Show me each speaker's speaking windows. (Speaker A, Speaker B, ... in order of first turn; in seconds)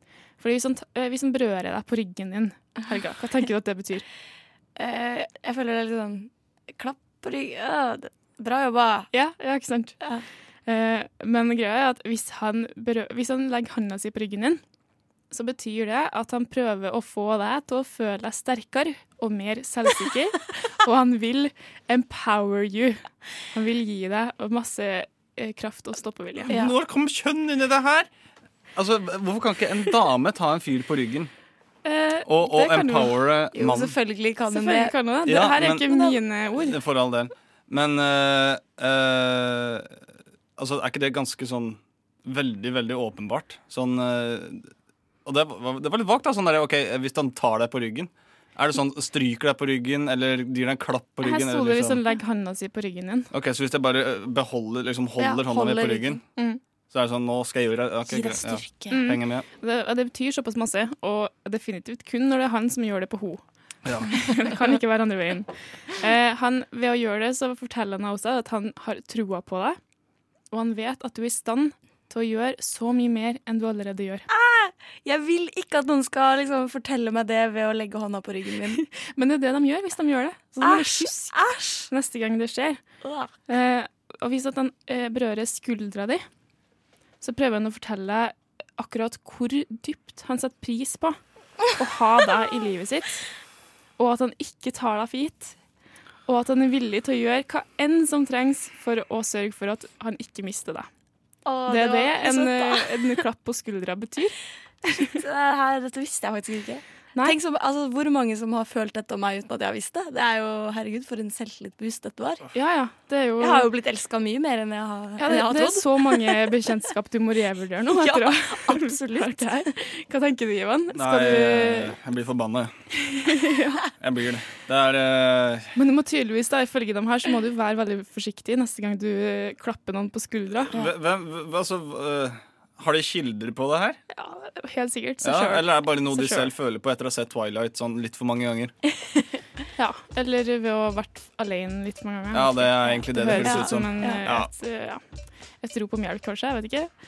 Speaker A: 0.4-4.0, 9.1-9.9, 10.7-14.6, 15.3-23.0, 23.5-26.6, 31.8-33.2, 34.5-36.8, 51.2-53.3, 56.3-56.6, 58.9-63.4, 64.0-65.5, 66.0-69.8, 70.5-74.2, 79.0-81.3, 81.9-82.8, 83.5-86.2, 87.2-91.2, 91.8-93.2, 94.0-95.5, 96.3-100.9, 101.7-104.3, 112.5-113.7, 115.2-121.9, 123.0-123.8, 125.8-130.7, 134.1-136.5, 139.8-145.0, 145.6-146.9
Speaker B: 2.8-3.0, 4.8-9.1, 26.5-26.7, 33.5-35.1, 35.9-36.1, 55.2-56.2, 58.1-59.0, 74.3-78.8, 80.6-81.9, 83.0-83.3, 101.5-103.2, 104.9-112.5, 113.4-116.4, 117.9-119.7, 143.2-144.2
Speaker C: 26.5-28.1, 28.8-31.3, 32.2-34.0, 35.2-39.9, 40.6-44.7, 45.2-52.0, 53.3-56.2, 56.9-59.5, 63.8-64.1, 120.9-122.7, 124.0-125.7, 130.7-134.0, 135.2-138.7, 142.3-144.5